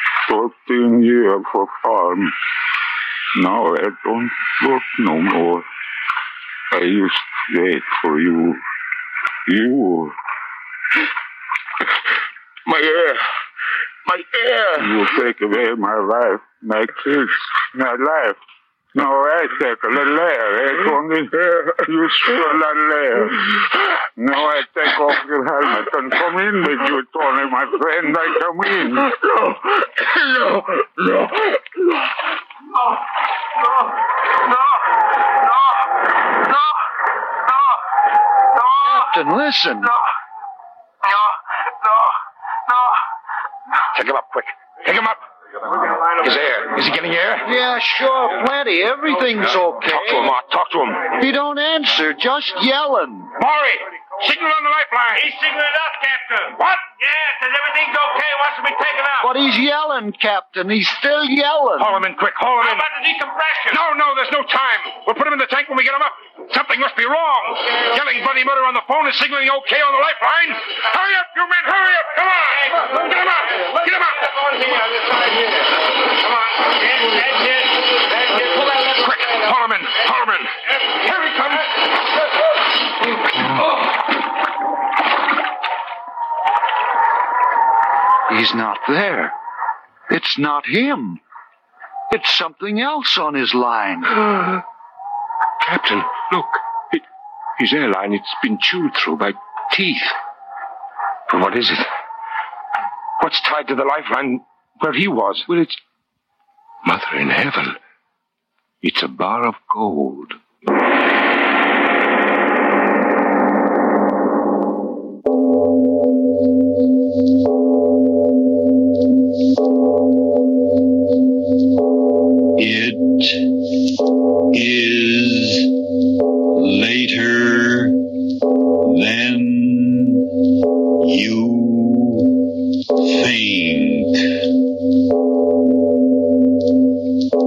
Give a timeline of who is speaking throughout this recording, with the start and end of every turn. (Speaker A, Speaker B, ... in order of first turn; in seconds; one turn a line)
Speaker A: 0.3-2.3
Speaker A: 3.3-5.7
Speaker A: 6.7-8.6
Speaker A: 9.5-10.1
Speaker B: 12.7-13.2
Speaker B: 14.1-15.2
Speaker A: 14.8-18.4
Speaker A: 18.9-23.5
Speaker A: 24.2-29.1
Speaker B: 29.2-31.6
Speaker C: 38.8-39.9
Speaker D: 43.9-45.2
Speaker D: 46.2-47.5
Speaker C: 47.4-50.3
Speaker D: 49.9-51.1
Speaker C: 51.1-53.3
Speaker D: 53.4-55.2
Speaker E: 55.1-59.3
Speaker C: 59.2-62.0
Speaker D: 61.8-62.8
Speaker E: 62.6-63.8
Speaker D: 63.7-72.4
Speaker E: 72.5-73.1
Speaker D: 73.0-74.3
Speaker E: 76.6-77.7
Speaker D: 78.8-81.7
Speaker C: 88.3-89.3
Speaker C: 90.1-91.2
Speaker C: 92.1-94.1
Speaker D: 95.8-96.5
Speaker D: 97.6-100.1
Speaker D: 101.3-101.8
Speaker D: 103.2-105.7
Speaker D: 106.9-107.4
Speaker D: 108.8-110.3
Speaker F: 122.6-123.4
Speaker F: 124.5-125.7
Speaker F: 126.6-127.9
Speaker F: 128.9-130.2
Speaker F: 131.0-132.3
Speaker F: 133.1-134.1